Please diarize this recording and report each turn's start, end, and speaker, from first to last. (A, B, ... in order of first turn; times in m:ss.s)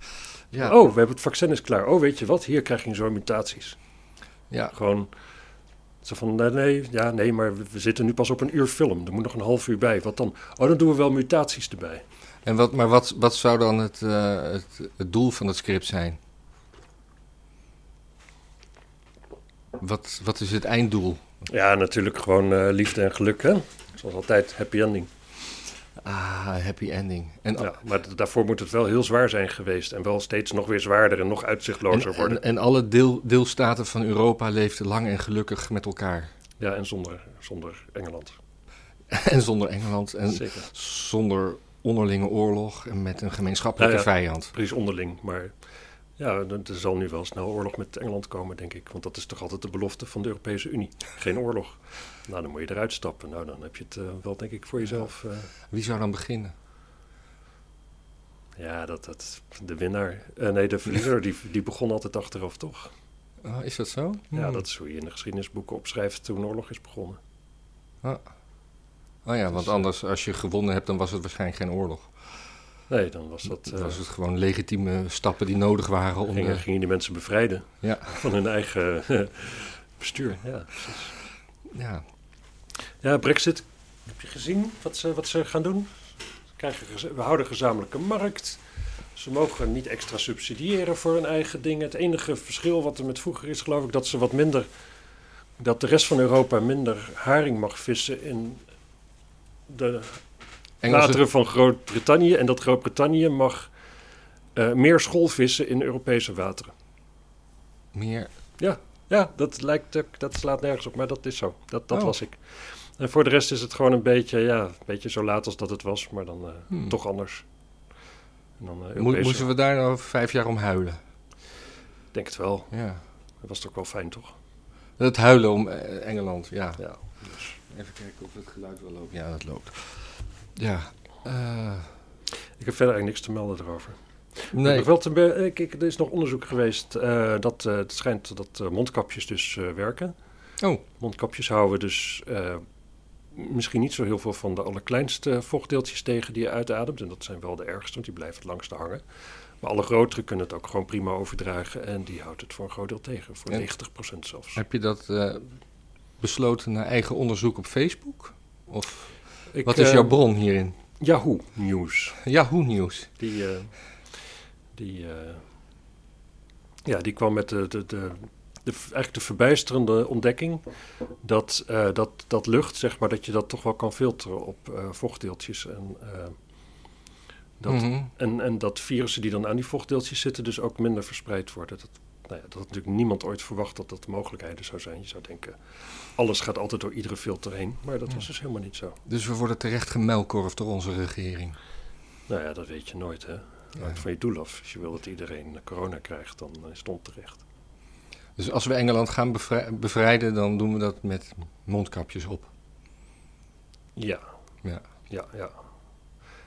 0:00.6-0:03.8 A
0:04.7-0:05.1 A
0:06.0-0:12.0 A
0:12.4-0:16.2 B
0:19.8-0:21.2 B
0:21.5-0:25.1 A
0:26.0-0:27.7 B
0:27.6-0:32.4 A
0:31.9-0:36.3 B
0:36.6-0:38.4 A
0:39.1-0:44.5 B
0:40.3-0:40.7 A
0:43.8-0:45.5 A
0:46.2-0:55.5 A
0:55.7-0:56.5 B
0:58.6-1:02.9 A
1:03.4-1:04.6 B
1:04.3-1:07.2 A
1:09.2-1:12.1 B
1:09.6-1:09.8 A
1:12.9-1:14.0 A
1:13.6-1:16.6 B
1:16.3-1:21.1 A
1:17.8-1:18.2 B
1:21.7-1:22.0 B
1:23.0-1:25.9 A
1:26.6-1:28.6 A
1:29.1-1:34.7 A
1:35.6-1:38.6 A
1:39.7-1:40.2 A
1:40.8-1:41.2 B
1:40.8-1:43.7 A
1:44.5-1:46.7 A
1:47.9-1:48.3 B
1:48.6-1:57.4 A
1:58.6-1:59.5 A
1:59.0-2:01.0 B
2:02.1-2:02.7 A
2:02.7-2:03.0 B
2:03.4-2:04.3 A
2:05.0-2:06.8 B
2:06.8-2:07.6 A
2:07.7-2:10.0 B
2:10.6-2:11.9 B
2:12.6-2:20.1 A
2:14.5-2:14.9 B
2:21.0-2:22.6 A
2:23.3-2:29.0 A
2:29.6-2:34.6 A
2:34.6-2:35.6 B
2:36.2-2:40.8 B
2:39.5-2:40.2 A
2:41.0-2:42.2 A
2:42.2-2:43.1 B
2:43.2-2:43.7 A
2:44.7-2:45.4 A
2:46.8-2:50.6 A
2:51.2-2:56.4 A
2:57.6-3:05.6 A
2:57.7-2:58.1 B
3:06.2-3:09.0 A
3:09.0-3:11.6 B
3:12.3-3:17.4 A
3:18.4-3:22.5 B
3:24.0-3:24.2 A
3:25.1-3:25.6 A